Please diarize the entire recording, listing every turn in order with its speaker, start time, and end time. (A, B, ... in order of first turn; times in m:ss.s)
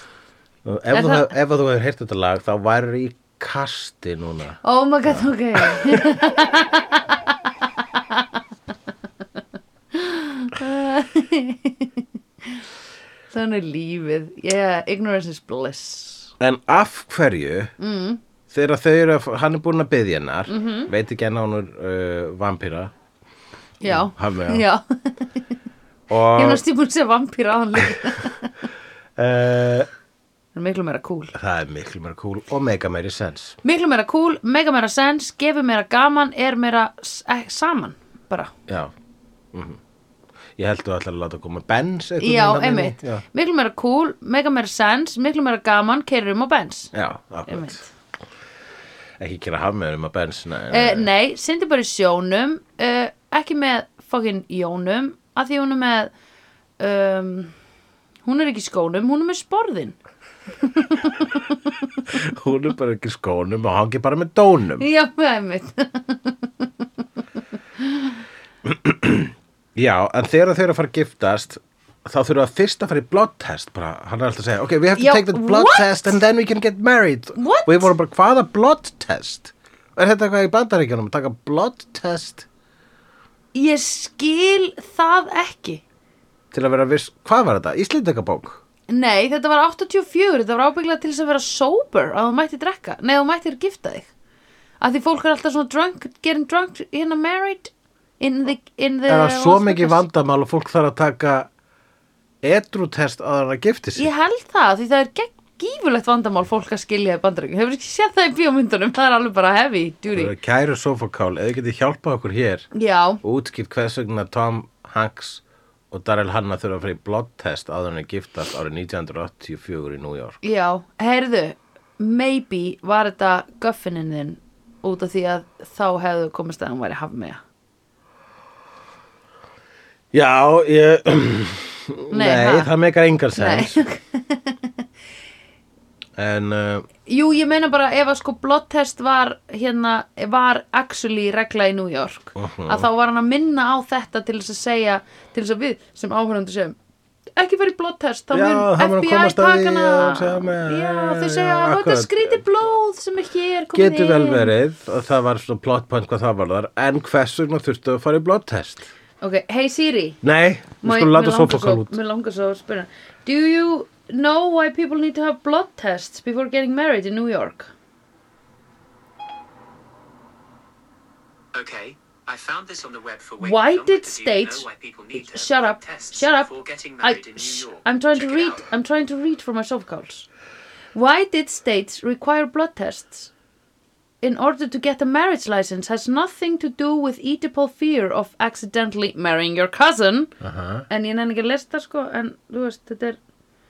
0:00.6-0:06.2 A
0:00.9-0:01.2 B
0:04.6-0:07.2 B
0:09.9-0:12.6 B
0:13.3-0:16.3 B
0:16.4-0:17.7 A
0:17.8-0:18.2 B
0:18.5-0:22.9 A
0:20.5-0:20.9 B
0:23.8-0:25.3 B
0:23.8-0:24.6 A
0:26.1-0:26.6 A
0:26.3-0:28.6 B
0:29.2-0:29.9 A
0:30.6-0:31.4 B
0:31.4-0:33.6 A
0:33.6-0:38.5 B
0:38.7-0:38.9 A
0:39.5-0:39.8 A
0:40.6-0:43.2 A
0:42.2-0:46.9 B
0:46.9-0:47.8 A
0:47.5-0:47.9 B
0:49.2-0:51.1 A
0:50.7-0:56.1 B
0:56.8-0:57.5 B
0:58.2-1:00.0 B
1:00.6-1:01.5 B
1:02.1-1:04.9 A
1:04.8-1:06.7 B
1:07.8-1:08.2 B
1:08.6-1:22.5 A
1:15.0-1:16.2 B
1:17.4-1:17.9 B
1:23.5-1:25.8 B
1:26.5-1:28.6 A
1:28.9-1:34.1 B
1:34.8-1:40.0 B
1:39.1-1:41.5 A
1:42.4-1:44.1 A
1:44.0-1:50.3 B
1:50.1-1:52.7 A
1:52.7-1:53.2 B
1:53.2-2:00.4 A
2:00.4-2:07.4 B
2:10.1-2:13.8 A
2:12.1-2:12.7 B
2:13.4-2:14.8 B
2:16.2-2:16.9 A
2:17.0-2:26.8 B
2:22.4-2:22.9 A
2:27.4-2:34.5 B
2:28.3-2:32.4 A
2:33.7-2:38.9 A
2:39.2-2:40.2 B
2:40.2-2:42.0 A
2:40.8-2:47.7 B
2:51.6-2:58.6 C
2:53.4-3:00.3 B
3:00.9-3:03.3 B
3:04.2-3:10.4 B
3:10.4-3:10.9 A
3:10.9-3:13.2 B